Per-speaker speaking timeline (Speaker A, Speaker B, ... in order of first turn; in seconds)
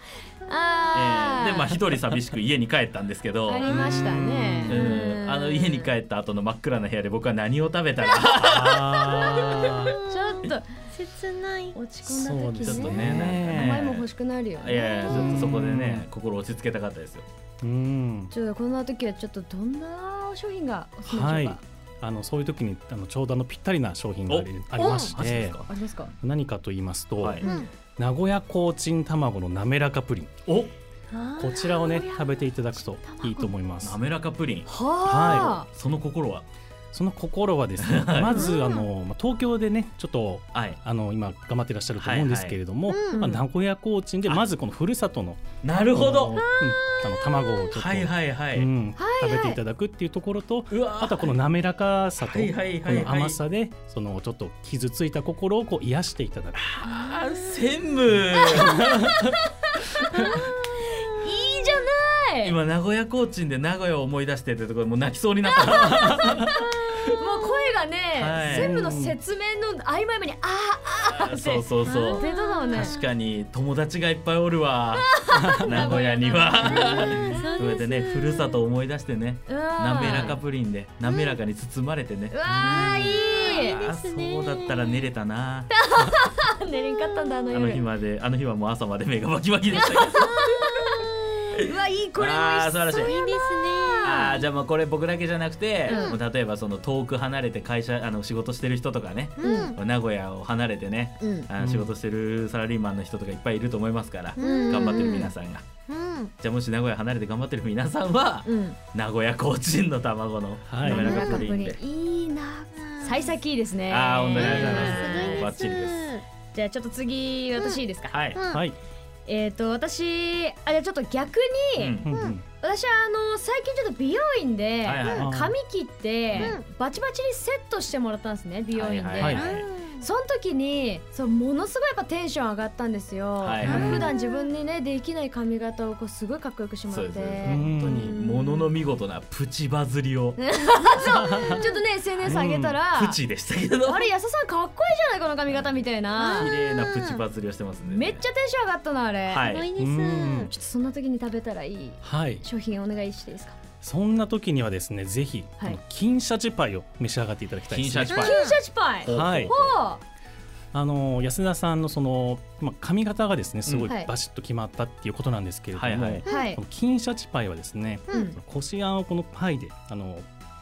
Speaker A: 0.5-1.8, 3.5-5.9, 9.1-10.7, 11.7-15.5, 18.3-21.6, 25.7-26.1, 31.4-33.5, 34.7-35.7, 38.3-38.6, 43.1-43.4, 46.3-47.7, 49.0-49.6, 58.4-62.5, 65.5-73.0, 75.0-77.5, 79.5-80.4, 81.0-81.3, 82.3-83.8, 85.8-87.8, 89.7-94.4, 95.9-96.2, 99.4-99.7, 101.2-101.5, 104.4-105.3, 108.4-108.8, 110.8-115.5, 116.5-118.1, 119.3-122.0, 122.6-129.4, 130.0-138.7, 140.4-143.2, 143.8-146.5, 147.9-149.5, 150.5-153.6, 158.2-160.0, 166.3-166.6, 168.1-168.4
Speaker B: 0.9-3.8, 4.7-9.7, 12.6-17.2, 24.3-25.7, 27.2-27.4, 30.4-30.7, 33.8-36.4, 37.8-38.4, 40.5-40.8, 42.0-42.6, 45.6-46.4, 47.7-48.7, 50.7-51.3, 52.2-53.4, 56.5-59.2, 60.0-61.5, 62.4-67.1, 68.2-68.8, 71.1-85.7, 87.5-90.9, 91.5-93.1, 94.0-105.6, 106.4-111.8, 113.9-116.1, 118.1-118.4, 121.8-122.1, 124.8-125.3, 128.7-129.6, 133.4-134.0, 136.9-140.4, 142.9-144.1, 145.5-148.2, 149.3-149.7, 157.7-159.8, 163.7-163.9, 165.7-166.2
Speaker C: 3.6-4.8, 8.3-9.9, 12.0-13.9, 15.1-16.1, 17.6-18.3, 21.1-25.6, 26.2-27.4, 28.0-30.4, 31.4-34.0, 35.0-35.6, 36.9-56.7, 58.6-59.3, 65.9-66.5, 68.4-69.2, 101.6-101.9, 110.7-111.3, 118.5-118.8, 122.0-122.4, 125.2-125.5, 129.2-129.4, 133.6-134.1, 137.4-138.1, 141.1-141.6, 142.2-142.8, 149.8-150.5, 152.0-152.4, 153.8-158.2, 159.1-159.5, 160.7-170.3
Speaker D: 9.8-11.8, 24.8-25.1, 27.4-27.7, 31.1-32.0, 38.3-38.8, 42.9-43.2, 71.8-73.0, 75.9-78.6, 80.0-80.4, 82.5-85.1, 86.7-87.7, 93.0-94.4, 95.9-96.2, 99.4-99.8, 104.4-105.1, 105.9-106.3, 112.7-113.3, 114.3-116.2, 118.3-118.6, 122.1-122.3, 126.3-126.7, 129.3-130.1, 133.7-134.5, 146.2-147.2, 149.4-150.5, 158.1-158.6, 166.2-166.5